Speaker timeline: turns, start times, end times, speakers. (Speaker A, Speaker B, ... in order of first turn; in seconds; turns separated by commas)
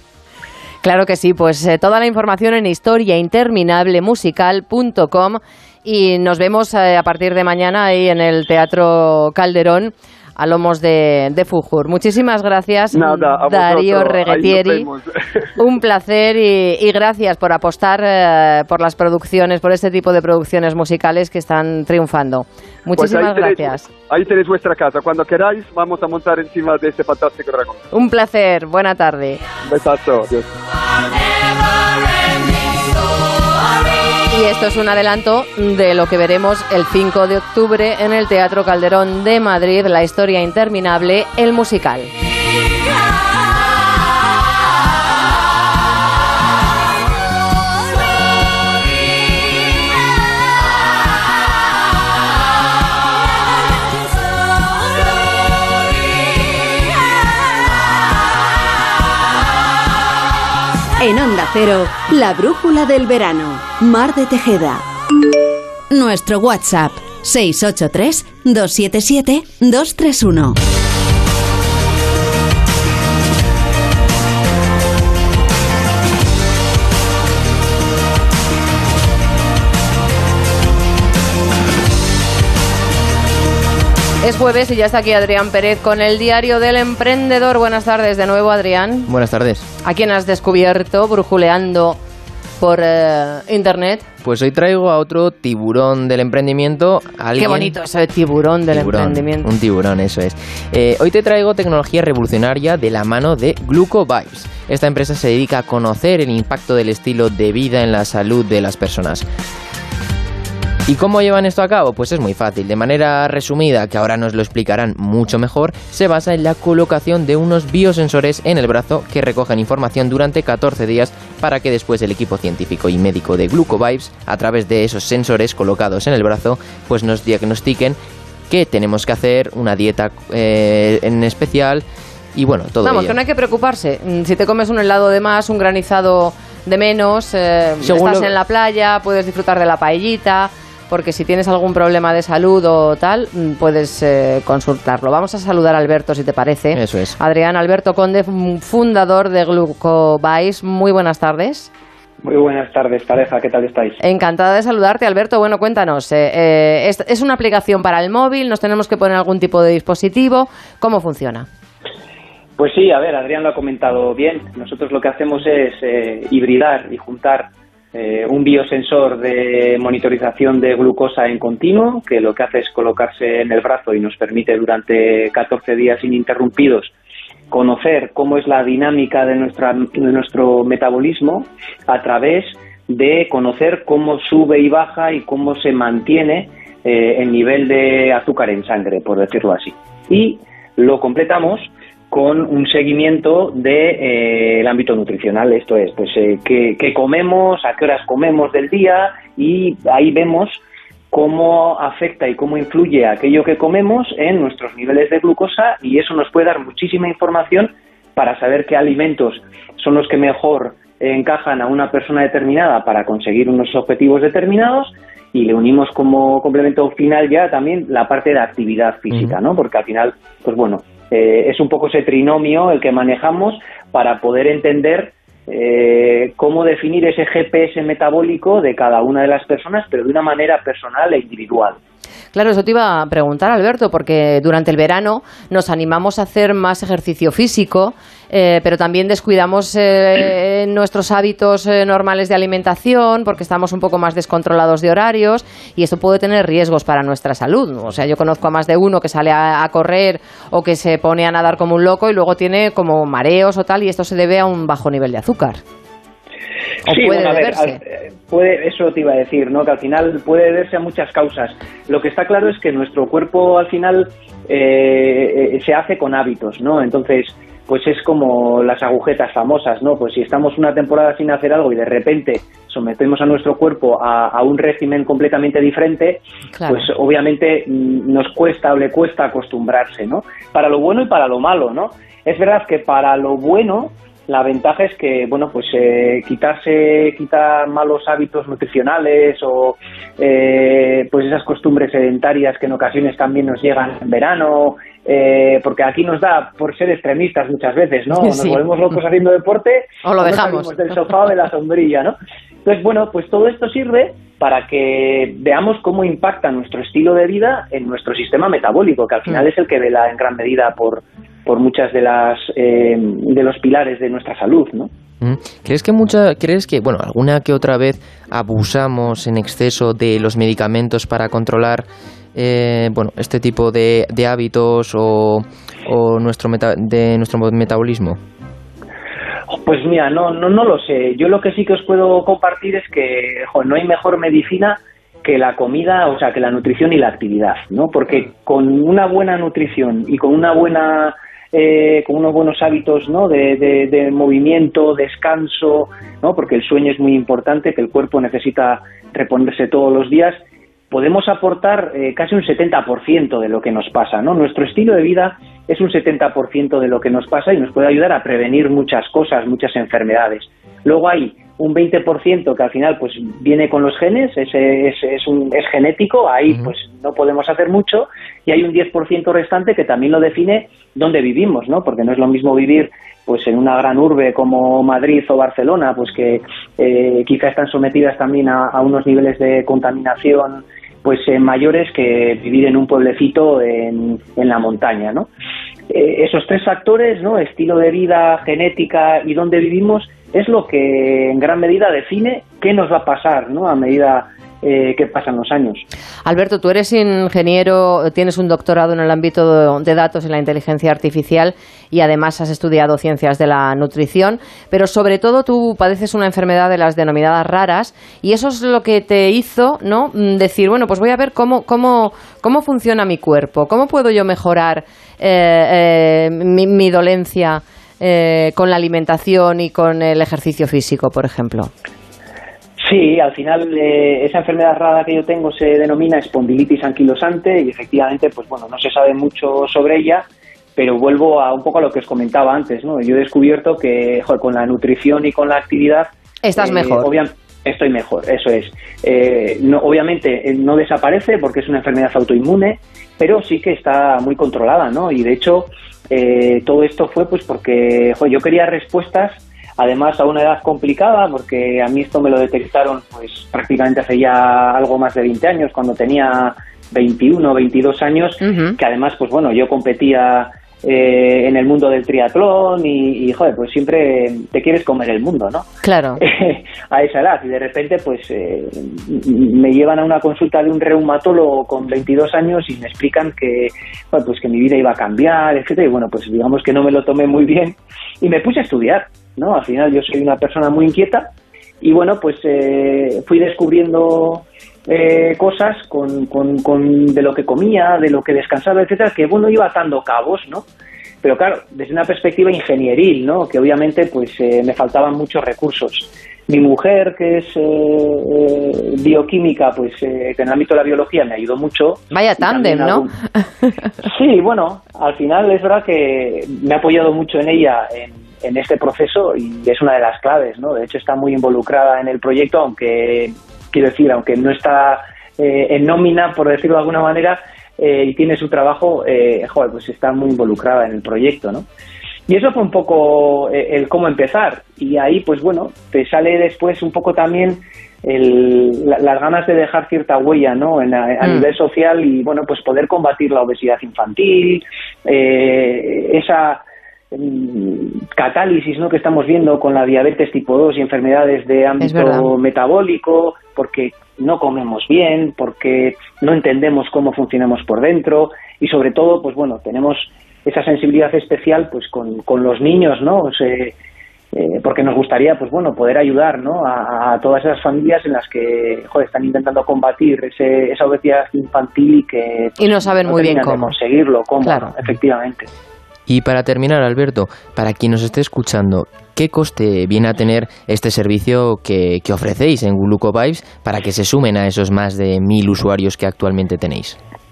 Speaker A: 0.8-14.9, Speaker B: 12.9-15.1, Speaker A: 15.6-23.9, Speaker B: 22.9-27.8, Speaker A: 27.9-29.4, Speaker B: 29.7-30.5, Speaker A: 34.3-42.1, Speaker C: 61.0-64.8, Speaker C: 65.9-70.6, Speaker A: 84.2-89.1, Speaker D: 89.1-89.7, Speaker A: 89.8-92.0, Speaker A: 92.6-94.1, Speaker D: 94.2-97.7, Speaker A: 97.4-99.5, Speaker D: 98.7-109.3, Speaker D: 110.9-133.2, Speaker A: 132.8-151.7, Speaker D: 137.8-138.3, Speaker D: 146.7-147.2, Speaker E: 152.2-154.0, Speaker A: 154.0-161.5, Speaker E: 162.6-176.9, Speaker E: 177.5-231.8, Speaker D: 219.1-219.4, Speaker A: 232.3-255.6, Speaker E: 256.9-314.9, Speaker A: 256.9-257.8, Speaker A: 276.6-276.9, Speaker A: 298.2-298.6, Speaker A: 300.0-300.7, Speaker D: 315.2-328.2, Speaker E: 329.6-350.4, Speaker E: 350.9-385.3, Speaker E: 385.9-395.9, Speaker A: 396.2-421.7, Speaker E: 422.8-465.7, Speaker A: 436.4-437.1, Speaker A: 458.4-458.8, Speaker A: 465.8-466.2, Speaker E: 466.2-490.6, Speaker E: 491.2-503.1, Speaker A: 502.1-503.1, Speaker E: 504.0-521.7, Speaker E: 522.3-553.7, Speaker A: 531.2-531.5, Speaker A: 541.8-542.3, Speaker E: 554.3-565.5, Speaker A: 562.6-563.7, Speaker A: 564.4-564.7, Speaker D: 566.1-577.0